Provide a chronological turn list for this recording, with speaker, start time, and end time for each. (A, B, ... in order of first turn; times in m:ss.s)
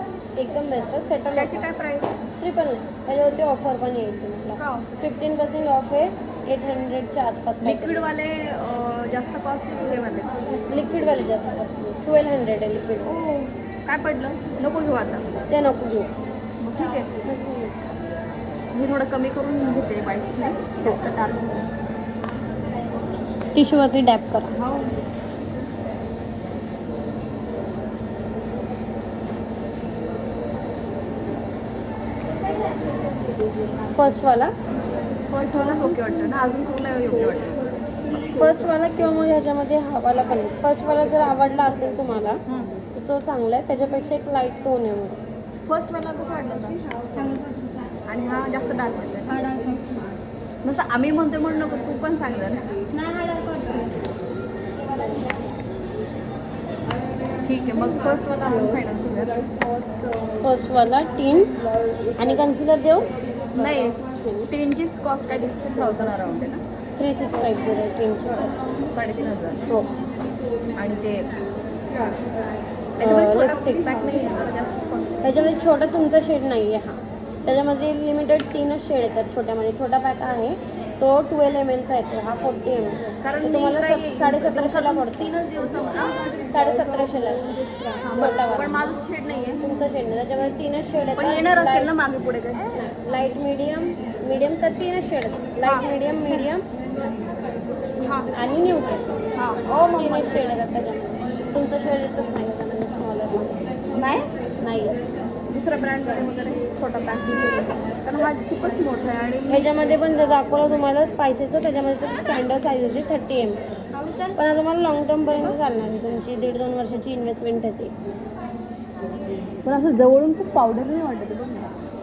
0:00.4-0:01.7 A
0:01.4-0:02.1 B
0:02.4-0:08.0 A
0:04.6-0:04.9 B
0:07.6-0:10.3 B
0:10.7-0:13.2 A
0:13.0-0:15.4 B
0:15.5-0:16.1 A
0:16.6-0:17.1 B
0:17.2-0:17.7 A
0:18.7-0:21.7 B
0:23.6-0:24.6 A
0:24.5-0:24.9 B
0:33.9-0:34.6 A
0:35.3-0:37.6 B
0:38.3-0:42.4 A
0:43.0-0:45.2 A
0:45.7-0:46.8 B
0:47.1-0:48.0 C
0:48.1-0:49.4 B
0:49.3-0:50.1 C
0:50.6-0:52.7 B
0:52.9-0:54.1 C
0:57.4-0:59.4 B
1:00.4-1:01.5 A
1:02.2-1:03.1 A
1:03.6-1:06.6 B
1:03.6-1:03.9 A
1:07.0-1:08.7 A
1:08.9-1:09.6 B
1:10.8-1:11.3 B
1:13.0-1:15.4 B
1:13.0-1:14.4 A
1:15.2-1:25.4 A
1:23.2-1:26.2 B
1:26.5-1:28.9 A
1:28.0-1:29.7 B
1:29.6-1:31.9 A
1:31.2-1:32.8 B
1:32.7-1:36.6 A
1:38.0-1:38.3 B
1:38.3-1:39.2 A
1:39.4-1:40.5 B
1:40.0-1:43.6 A
1:43.9-1:44.3 B
1:44.6-1:45.0 A
1:45.5-1:49.7 B
1:49.5-1:53.6 A
1:53.9-1:54.4 C
1:54.4-1:57.9 A
1:59.6-2:01.8 B